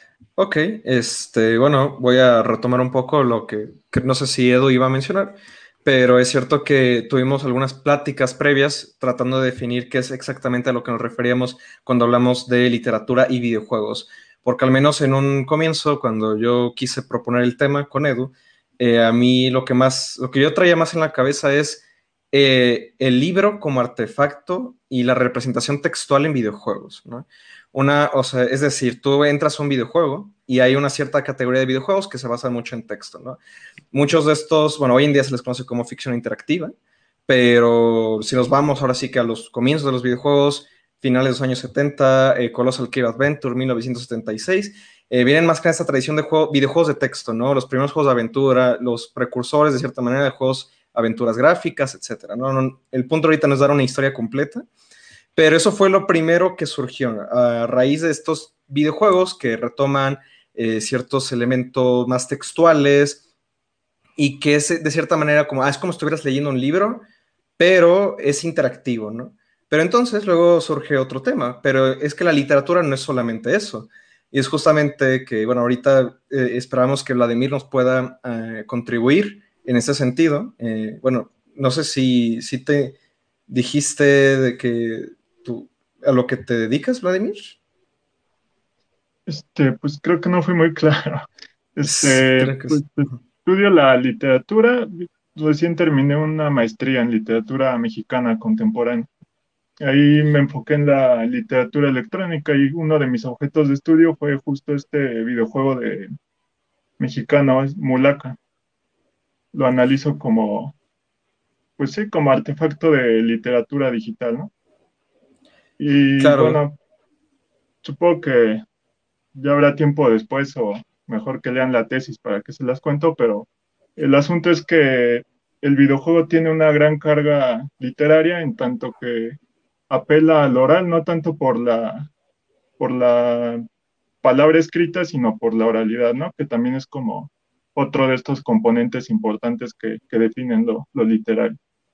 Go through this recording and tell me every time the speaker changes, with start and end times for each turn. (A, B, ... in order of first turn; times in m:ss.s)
0:00.4-0:33.4 A
0:33.9-0:36.8 A
0:37.3-0:54.7 A
0:55.4-1:03.2 A
1:04.2-1:07.1 A
1:07.6-1:23.0 A
1:23.5-1:27.6 A
1:29.3-1:39.1 B
1:31.8-1:33.2 A
1:39.8-1:46.1 B
1:47.0-1:48.4 B
1:49.5-1:50.8 B
1:51.8-1:54.5 B
1:55.8-1:56.8 B
1:56.2-1:56.6 A
1:57.8-1:58.6 B
1:59.3-2:09.4 B
2:09.9-2:12.1 B
2:12.8-2:13.7 B
2:14.2-2:21.6 B